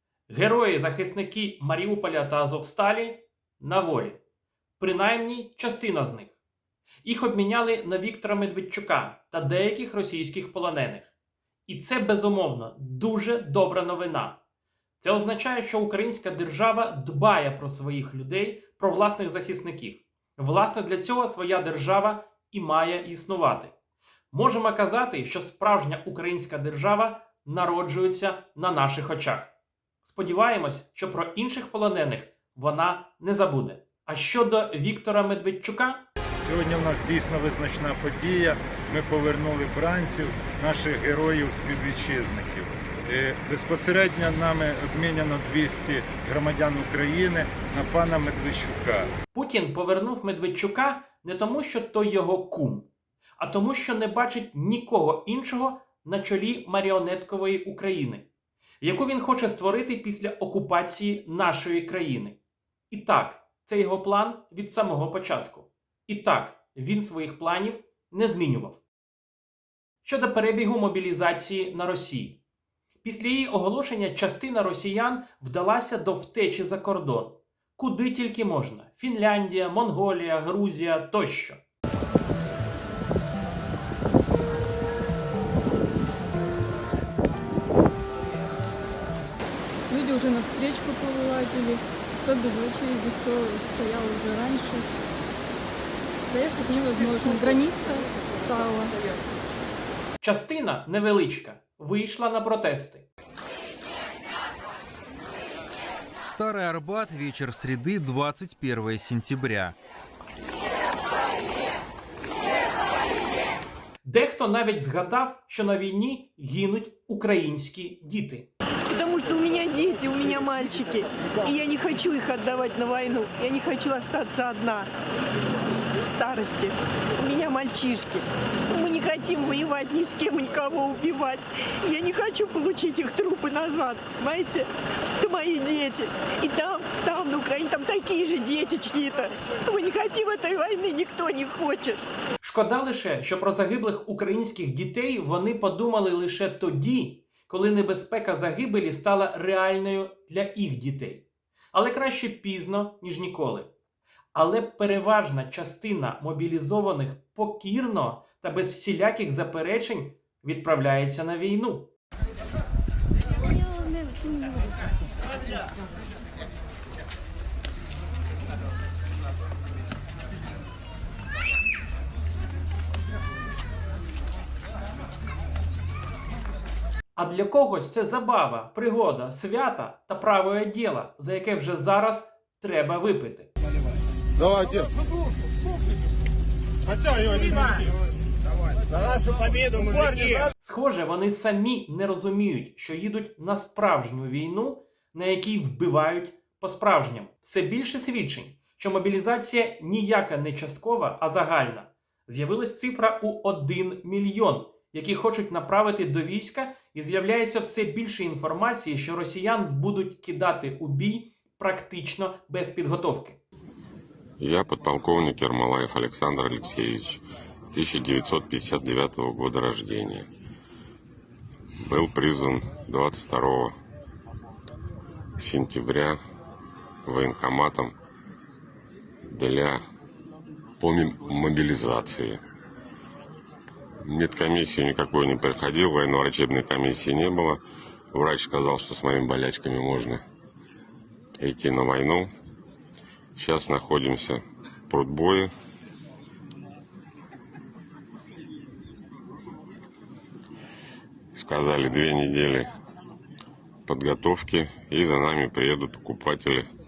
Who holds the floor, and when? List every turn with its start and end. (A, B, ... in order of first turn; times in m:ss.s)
0:00.3-0:04.2 A
0:04.8-0:06.4 A
0:07.0-0:11.1 A
0:11.7-0:14.4 A
0:15.0-0:23.7 A
0:24.3-0:36.0 A
0:36.4-0:49.1 B
0:49.3-0:52.9 A
0:53.4-0:58.3 A
0:58.8-1:02.4 A
1:02.9-1:08.8 A
1:10.0-1:12.4 A
1:13.0-1:21.6 A
1:29.9-1:34.9 C
1:36.3-1:39.0 C
1:40.2-1:43.1 A
1:46.2-1:49.7 D
1:54.0-1:58.5 A
1:58.8-2:04.9 E
2:05.8-2:22.0 E
2:22.4-2:33.7 A
2:34.3-2:41.9 A
2:57.2-3:03.5 A
3:10.6-3:33.4 A
3:34.4-3:40.3 F
3:41.8-3:43.7 F
3:45.4-3:46.2 F
3:47.0-3:47.9 F
3:49.3-3:49.8 F
3:50.8-3:52.4 F
3:54.0-3:57.6 F
3:58.1-4:00.2 F
4:01.4-4:02.3 F
4:03.4-4:05.5 F
4:11.3-4:12.7 F
4:13.8-4:16.7 F